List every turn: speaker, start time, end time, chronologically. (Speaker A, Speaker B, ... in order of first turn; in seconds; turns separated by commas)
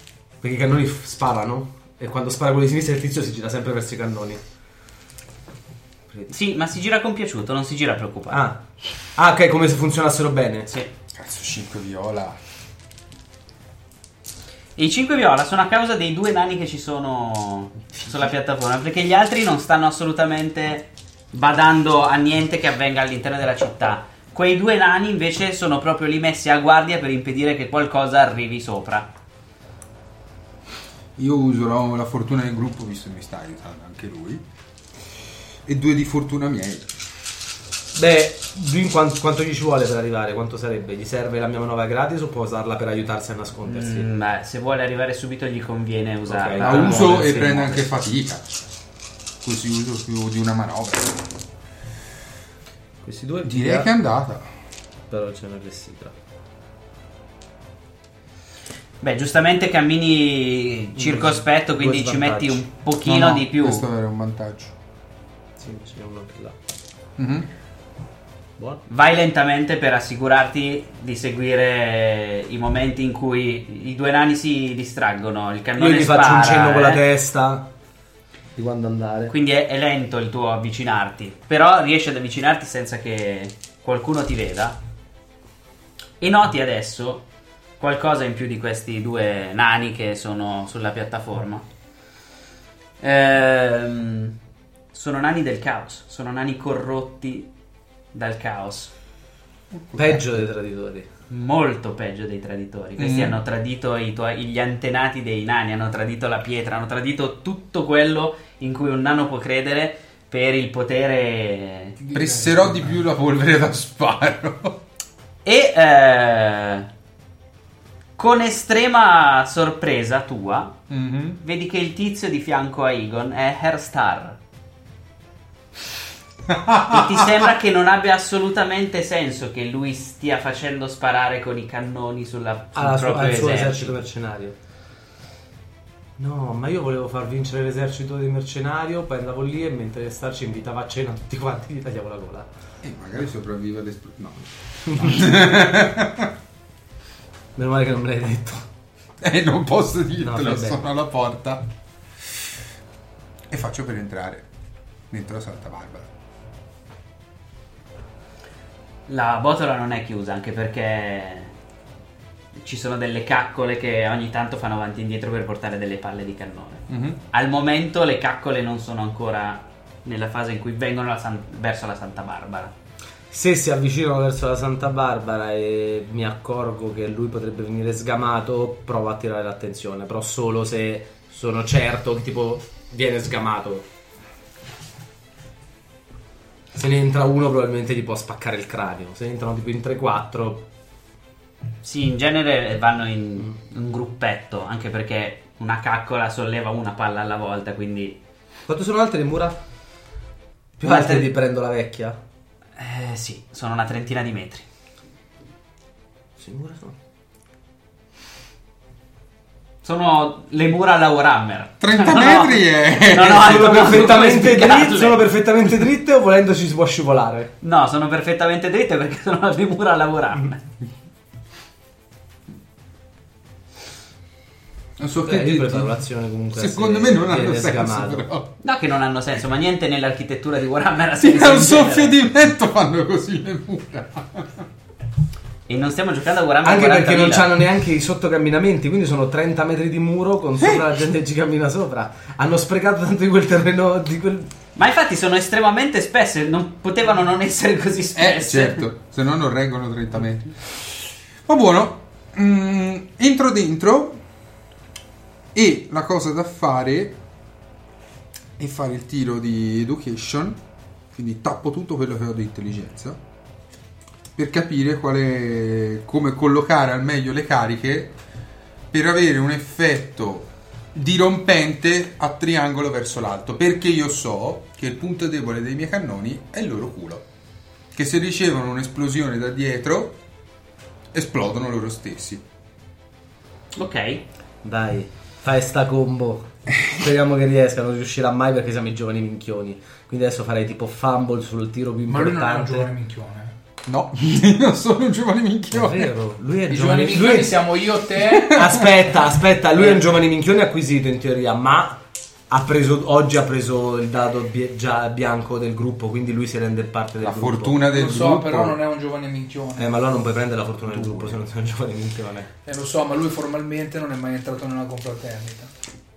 Speaker A: 0.4-4.4, Speaker B: 6.3-8.5, Speaker A: 8.3-8.6, Speaker A: 9.2-10.7, Speaker C: 11.1-12.4, Speaker B: 14.8-29.1, Speaker C: 31.2-34.4, Speaker C: 35.6-36.9, Speaker A: 37.9-44.1, Speaker B: 43.6-47.9, Speaker A: 46.3-47.3, Speaker C: 46.6-48.5, Speaker C: 49.4-51.2, Speaker A: 53.0-53.9, Speaker C: 53.4-54.5, Speaker A: 55.1-56.1, Speaker B: 59.0-63.9, Speaker A: 61.0-62.6, Speaker C: 63.0-64.7, Speaker A: 65.6-66.6, Speaker C: 67.2-67.5, Speaker A: 68.6-68.8, Speaker B: 68.9-77.0, Speaker A: 75.8-77.7, Speaker A: 78.5-79.3, Speaker B: 79.3-84.8, Speaker B: 86.2-87.2, Speaker B: 87.8-91.7, Speaker B: 93.0-94.3, Speaker B: 94.9-97.5, Speaker B: 98.1-98.9, Speaker C: 99.7-100.2, Speaker A: 100.0-101.1, Speaker B: 101.3-112.0, Speaker C: 103.0-103.3, Speaker D: 112.0-113.0, Speaker C: 112.1-114.8, Speaker B: 115.5-116.9, Speaker B: 118.2-120.8, Speaker C: 120.9-121.4, Speaker B: 121.4-124.4, Speaker C: 126.5-127.3, Speaker B: 126.9-134.0, Speaker A: 132.7-134.6, Speaker A: 136.2-142.5, Speaker C: 142.8-146.3, Speaker A: 144.9-145.4, Speaker A: 147.6-148.7, Speaker C: 149.2-151.7, Speaker A: 150.2-150.8, Speaker C: 153.5-154.4, Speaker C: 155.1-156.1, Speaker B: 159.1-161.5, Speaker B: 162.6-172.7, Speaker C: 166.9-167.2, Speaker A: 173.3-183.8, Speaker A: 186.7-190.7, Speaker B: 191.8-198.2, Speaker A: 198.7-199.6, Speaker A: 200.8-202.2, Speaker B: 200.8-201.3, Speaker B: 202.8-204.7, Speaker A: 206.4-206.9, Speaker B: 209.8-215.2, Speaker C: 211.8-213.9, Speaker A: 213.3-217.5, Speaker B: 217.6-220.6, Speaker C: 225.0-225.9, Speaker A: 225.2-228.3, Speaker C: 226.6-228.5, Speaker B: 228.6-232.2, Speaker C: 231.2-234.7, Speaker B: 235.7-237.5, Speaker A: 236.6-244.5, Speaker B: 244.8-248.9, Speaker C: 248.2-250.8, Speaker C: 251.4-254.2, Speaker C: 255.5-257.2, Speaker C: 258.6-260.6, Speaker C: 261.1-263.2, Speaker C: 264.4-268.1, Speaker C: 268.9-277.2, Speaker C: 277.9-280.1, Speaker C: 281.1-282.4, Speaker B: 283.7-284.2, Speaker A: 284.6-292.9, Speaker D: 292.1-293.6, Speaker C: 293.9-296.1, Speaker A: 295.7-297.6, Speaker D: 296.7-298.6, Speaker C: 298.2-298.8, Speaker A: 298.4-307.8, Speaker C: 307.2-308.8, Speaker D: 307.9-309.9, Speaker A: 309.8-312.5, Speaker C: 310.9-311.3, Speaker D: 312.6-315.7